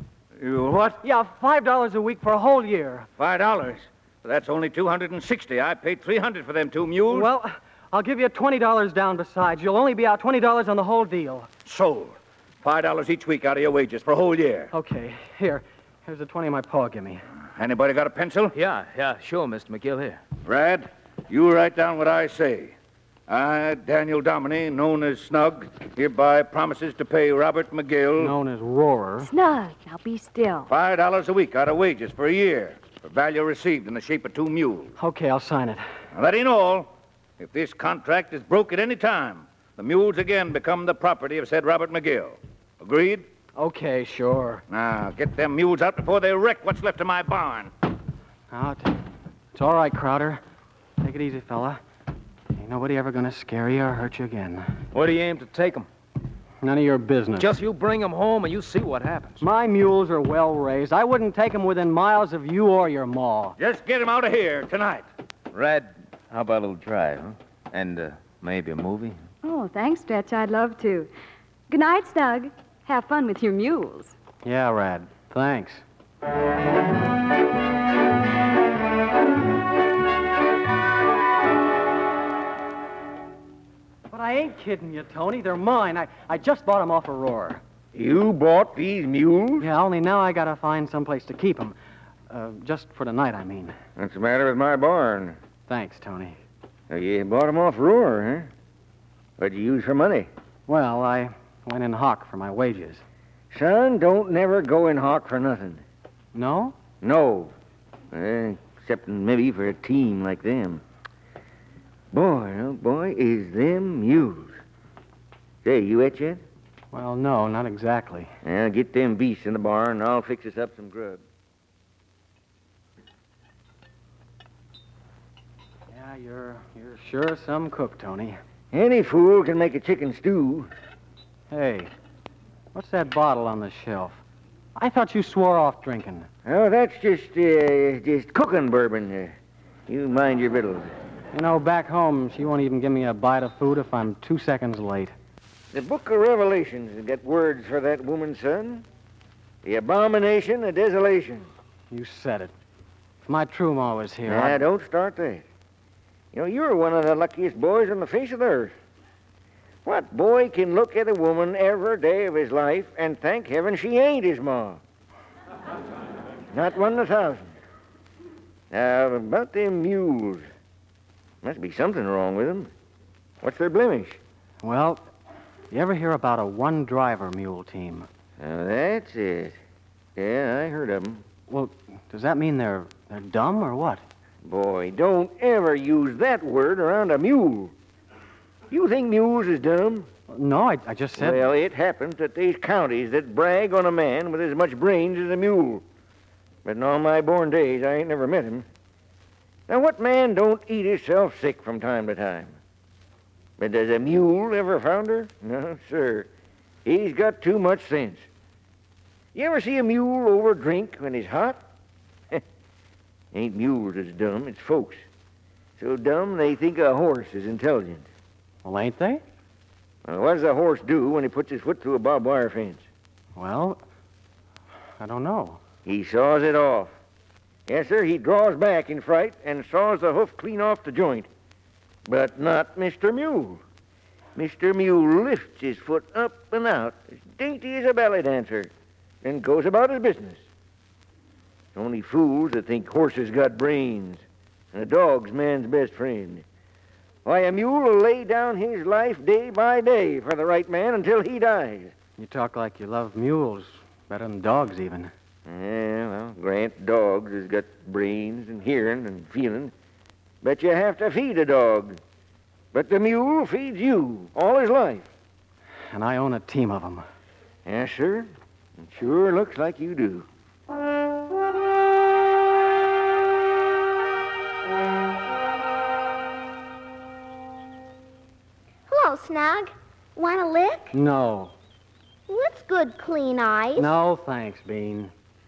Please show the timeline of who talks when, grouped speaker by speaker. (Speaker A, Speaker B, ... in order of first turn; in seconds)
Speaker A: 0.4-1.0, 3.2-7.3, 11.6-14.7, 17.5-18.5, 20.4-22.7, 23.3-28.3, 30.7-34.9, 36.1-43.2, 44.7-47.7, 63.6-65.1
Speaker B: 1.0-3.1, 7.1-11.5, 14.7-17.2, 28.2-29.3, 35.0-35.8, 43.5-44.6, 48.5-49.0, 49.5-50.4, 51.0-51.8, 52.5-54.7, 56.6-57.5, 59.4-63.6, 74.4-75.8, 84.1-87.6, 89.6-91.8, 92.3-93.8, 95.7-96.4, 100.7-103.0, 106.3-106.8, 116.9-118.3, 125.9-128.4, 131.5-131.9, 132.7-134.2, 134.8-136.3, 141.3-145.1, 151.9-152.5, 153.2-154.6, 174.6-175.1, 175.7-178.1, 181.5-184.0, 190.3-191.5, 218.6-219.2, 223.3-223.8, 225.0-225.6, 252.2-255.1, 265.9-267.1, 280.9-281.5, 283.8-285.1
Speaker C: 18.5-20.2, 54.9-55.9, 57.4-59.4, 65.5-69.2
Speaker D: 29.2-30.7, 69.4-71.1, 71.7-74.1
Speaker E: 87.9-89.7, 94.0-95.4, 96.9-98.5, 99.4-100.3, 103.5-105.8, 107.0-107.5, 108.1-110.8, 112.1-114.6, 115.6-116.4, 118.4-121.2, 128.7-130.7, 136.4-139.3, 139.9-140.9, 145.7-148.8, 149.6-151.5, 154.2-155.4, 156.3-158.7, 159.8-164.8, 166.5-167.5, 168.7-170.5, 171.4-172.7, 173.4-174.2, 178.4-179.6, 180.2-181.2, 184.4-187.7, 188.7-190.1, 191.2-195.8, 196.6-198.7, 199.7-202.6, 203.6-206.3, 206.8-208.3, 209.3-211.6, 213.3-215.0, 215.8-218.1, 220.0-222.8, 225.8-226.9, 227.7-231.3, 232.1-233.6, 234.3-240.4, 241.7-246.4, 247.2-251.9, 255.4-259.7, 260.4-262.0, 262.7-265.1, 267.6-270.3
Speaker F: 278.9-280.9, 282.3-283.9